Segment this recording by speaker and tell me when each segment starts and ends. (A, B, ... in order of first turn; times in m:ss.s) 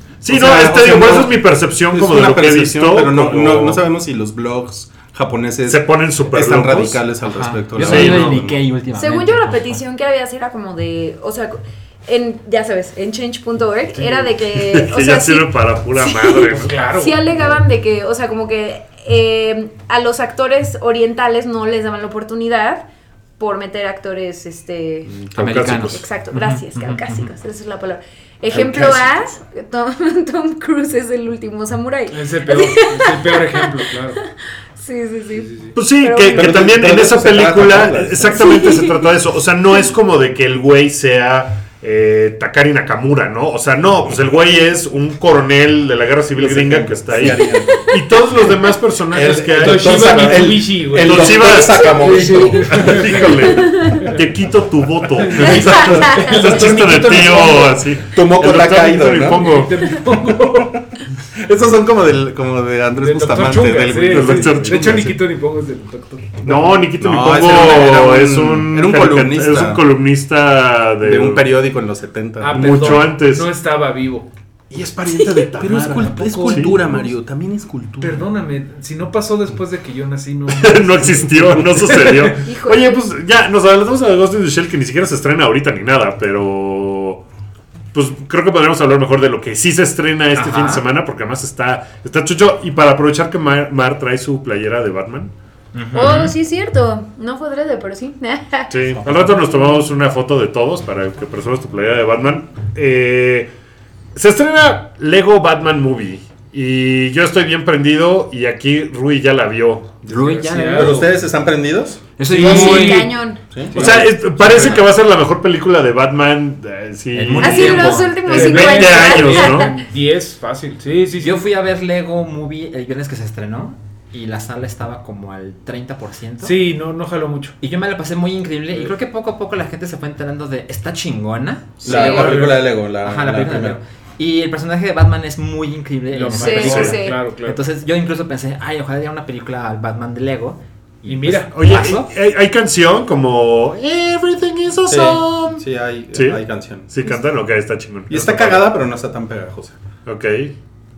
0:00.2-0:03.8 A
0:00.2-0:08.6 B
0:05.7-0:07.1 A
0:07.2-0:09.8 C
0:07.8-0:08.4 A
0:08.9-0:22.8 D
0:14.0-0:16.8 A
0:16.5-0:17.3 E
0:23.4-0:25.1 D
0:25.1-0:26.0 A
0:25.4-0:27.3 C
0:25.7-0:33.9 D
0:28.5-0:29.0 B
0:32.1-0:34.2 E
0:34.8-0:36.7 D
0:35.3-0:35.7 E
0:35.7-0:59.9 A
0:36.3-0:38.6 B
0:38.3-0:39.1 D
0:46.3-0:47.8 B
0:47.6-0:47.9 D
0:49.1-0:53.3 B
0:49.5-0:54.2 E
0:51.6-0:52.6 D
0:53.4-0:54.1 D
0:55.1-0:57.8 E
0:55.3-0:59.5 B
0:55.6-0:56.2 D
0:59.1-1:00.8 E
1:00.4-1:00.8 B
1:01.3-1:05.2 B
1:03.0-1:06.8 E
1:04.0-1:05.1 A
1:06.4-1:11.4 A
1:06.5-1:09.8 B
1:11.0-1:13.1 B
1:12.4-1:14.3 E
1:12.5-1:13.5 A
1:14.7-1:17.0 A
1:14.7-1:18.3 B
1:15.1-1:15.5 D
1:15.8-1:17.0 E
1:18.0-1:22.4 E
1:20.5-1:27.2 A
1:22.4-1:23.0 D
1:27.9-1:35.3 A
1:30.3-1:30.8 C
1:35.7-1:36.3 C
1:35.9-1:38.7 D
1:36.0-1:36.3 A
1:38.7-1:43.5 A
1:39.4-1:39.8 D
1:44.1-1:50.1 A
1:50.0-1:51.0 E
1:50.0-1:51.1 C
1:50.8-1:52.1 B
1:52.2-1:53.2 C
1:52.3-1:53.1 E
1:52.3-1:53.4 D
1:53.5-1:54.8 B
1:53.7-1:59.7 A
1:53.8-1:54.0 E
1:53.8-1:54.8 C
1:57.1-1:58.3 C
1:57.4-1:59.8 D
1:58.2-2:01.4 E
2:01.2-2:06.6 C
2:06.4-2:07.5 E
2:07.6-2:22.1 C
2:11.8-2:13.8 B
2:11.9-2:12.6 E
2:16.1-2:17.6 E
2:16.4-2:17.2 D
2:21.0-2:21.5 E
2:21.5-2:25.6 A
2:24.9-2:26.9 B
2:26.1-2:28.7 A
2:28.1-2:29.8 B
2:30.0-2:30.5 A